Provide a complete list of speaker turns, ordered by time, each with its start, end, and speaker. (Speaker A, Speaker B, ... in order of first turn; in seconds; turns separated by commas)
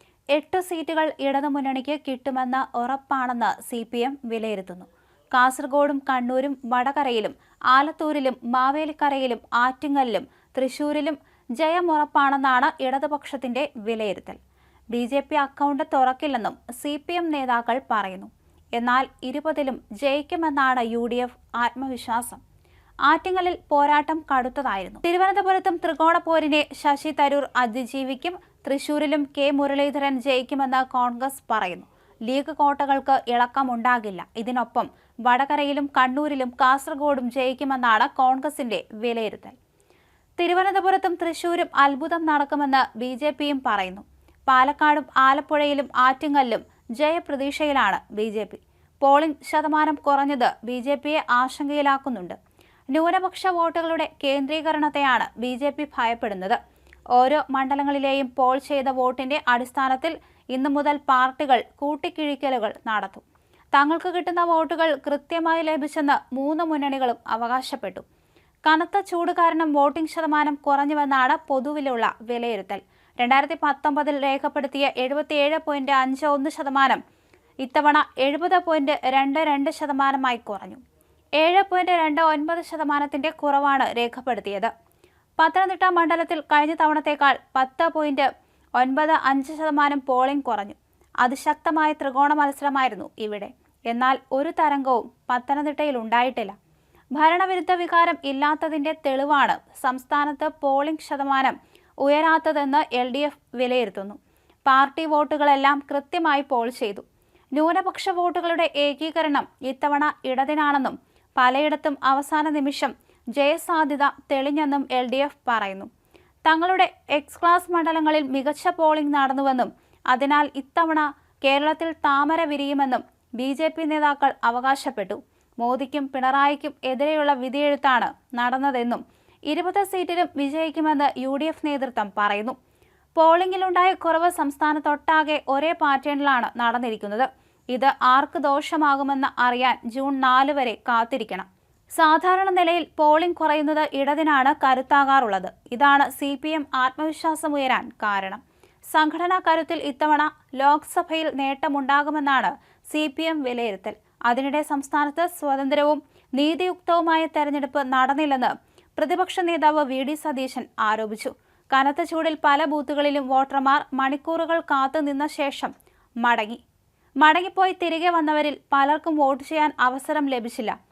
Speaker A: 0.3-14.4, Speaker A: 14.9-22.4, Speaker A: 23.1-39.5, Speaker A: 40.4-52.4, Speaker A: 52.9-56.6, Speaker A: 57.1-68.0, Speaker A: 68.6-77.0, Speaker A: 77.6-80.8, Speaker A: 81.4-84.7, Speaker A: 85.4-96.5, Speaker A: 97.2-115.9, Speaker A: 116.5-132.6, Speaker A: 133.2-148.4, Speaker A: 148.9-165.7, Speaker A: 166.2-166.6, Speaker A: 167.2-170.8